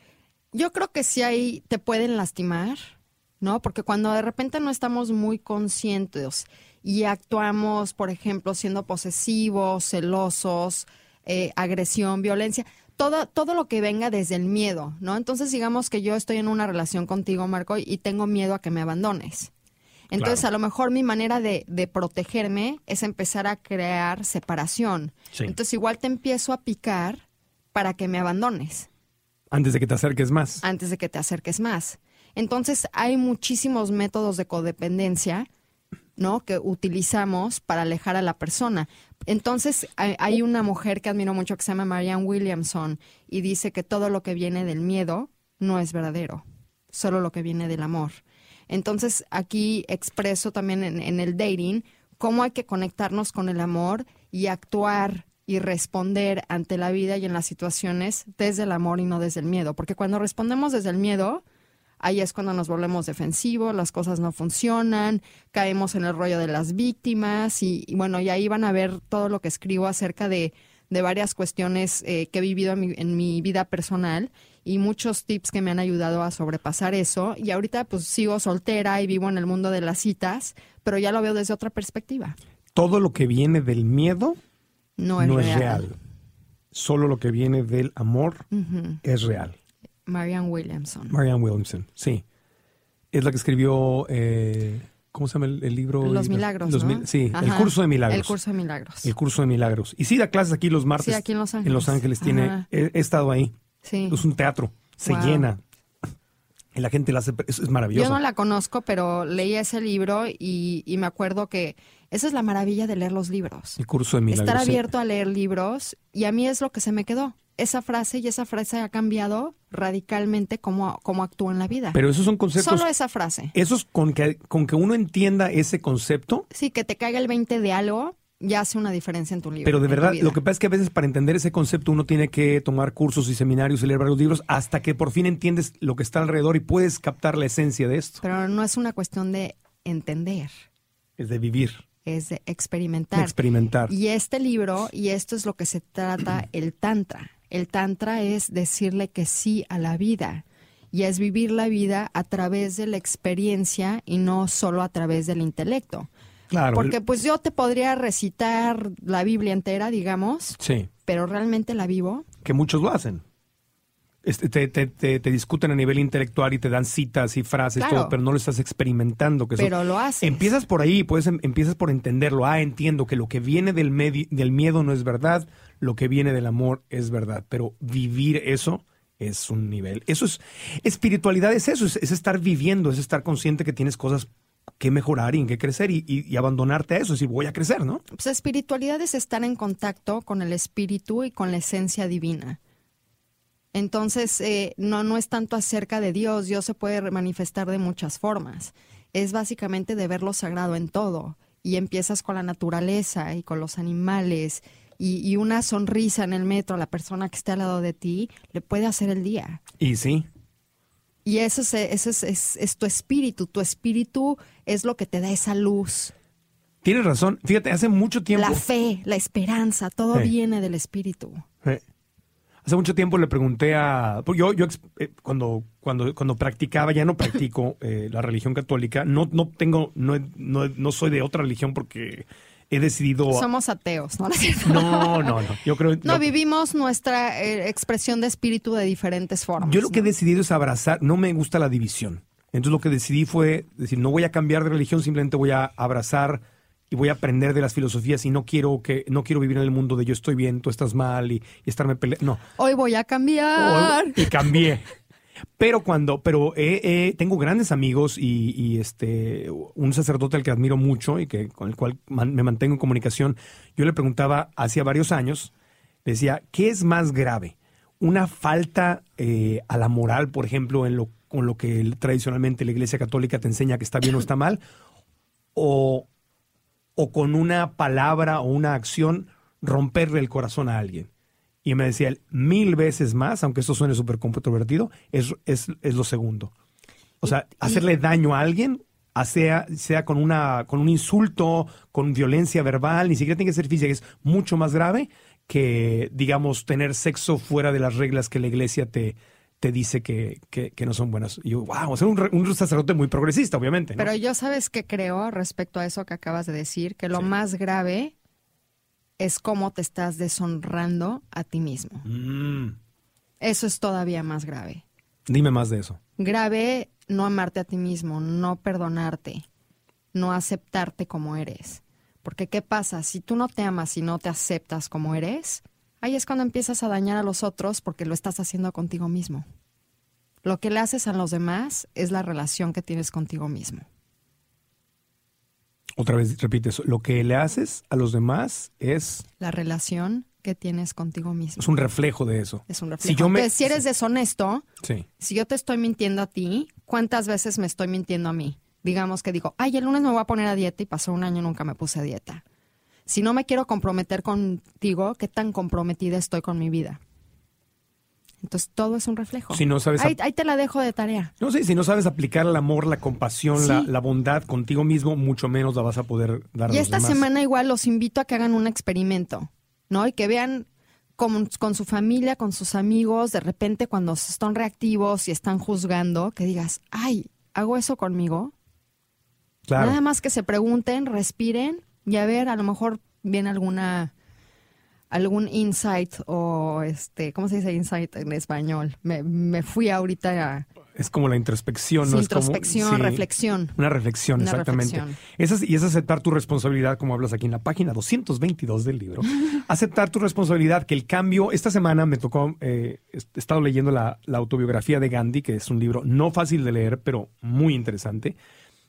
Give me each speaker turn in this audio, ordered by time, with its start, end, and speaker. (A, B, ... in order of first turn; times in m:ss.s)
0:00.5-0:19.5 A
0:20.1-0:27.2 A
0:20.2-0:20.4 B
0:27.7-0:28.9 A
0:29.5-0:30.6 B
0:30.6-0:35.5 A
0:36.2-1:01.4 A
1:02.0-1:22.4 A
1:22.8-1:24.4 B
1:25.0-1:25.9 A
1:25.2-1:25.9 B
1:26.7-1:28.5 B
1:28.5-1:29.0 A
1:29.0-1:29.6 B
1:30.1-1:31.2 A
1:31.1-1:32.2 B
1:33.1-1:38.4 B
1:36.0-1:39.1 A
1:39.0-1:43.5 B
1:41.0-1:42.7 A
1:43.8-1:44.2 A
1:44.1-1:45.6 B
1:45.0-1:45.5 A
1:46.8-1:48.2 B
1:47.9-1:53.8 A
1:53.8-1:54.9 B
1:54.3-2:02.0 A
2:01.9-2:02.9 B
2:02.6-2:03.5 A
2:03.5-2:06.5 B
2:06.5-2:10.4 A
2:09.6-2:18.2 B
2:18.2-2:20.5 A
2:21.2-2:21.8 B
2:22.0-2:23.4 A
2:23.1-2:23.9 B
2:23.9-2:36.1 A
2:36.5-2:37.0 B
2:36.7-2:42.3 A
2:40.6-2:40.9 B
2:42.4-2:43.2 B
2:44.2-3:08.0 B
2:47.8-2:48.2 A
2:49.6-2:50.5 A
3:08.1-3:12.6 A
3:13.7-3:29.6 A
3:29.8-3:30.3 B
3:31.2-3:36.1 A
3:36.8-3:38.6 B
3:38.4-3:41.4 A
3:42.6-3:53.5 B
3:53.3-3:55.4 A
3:54.6-3:56.3 B
3:56.0-4:00.1 A
3:59.6-4:12.4 B
4:12.6-4:14.3 A
4:13.6-4:14.9 B
4:15.6-4:25.5 B
4:26.0-4:34.6 B
4:35.6-4:36.1 B
4:37.0-4:41.1 B
4:41.6-4:46.5 B
4:47.2-5:04.1 B
5:04.0-5:08.1 A
5:09.2-5:12.1 A
5:12.0-5:12.8 B
5:13.4-5:14.8 A
5:15.3-5:16.0 B
5:16.2-5:19.4 A
5:20.1-5:29.4 A
5:30.4-5:33.8 A
5:36.0-5:39.2 B
5:39.4-5:41.7 A
5:41.6-5:43.7 B
5:42.7-5:44.6 A
5:45.2-5:52.4 A
5:53.1-5:57.0 A
5:58.4-6:01.3 A
5:59.5-6:00.2 B
6:01.4-6:07.2 B
6:03.6-6:03.9 A
6:06.7-6:10.7 A
6:11.2-6:18.5 A
6:19.7-6:20.0 B
6:19.8-6:24.1 A
6:25.1-6:30.7 A
6:31.0-6:33.2 B
6:32.0-6:33.8 A
6:33.8-6:48.4 B
6:34.4-6:35.2 A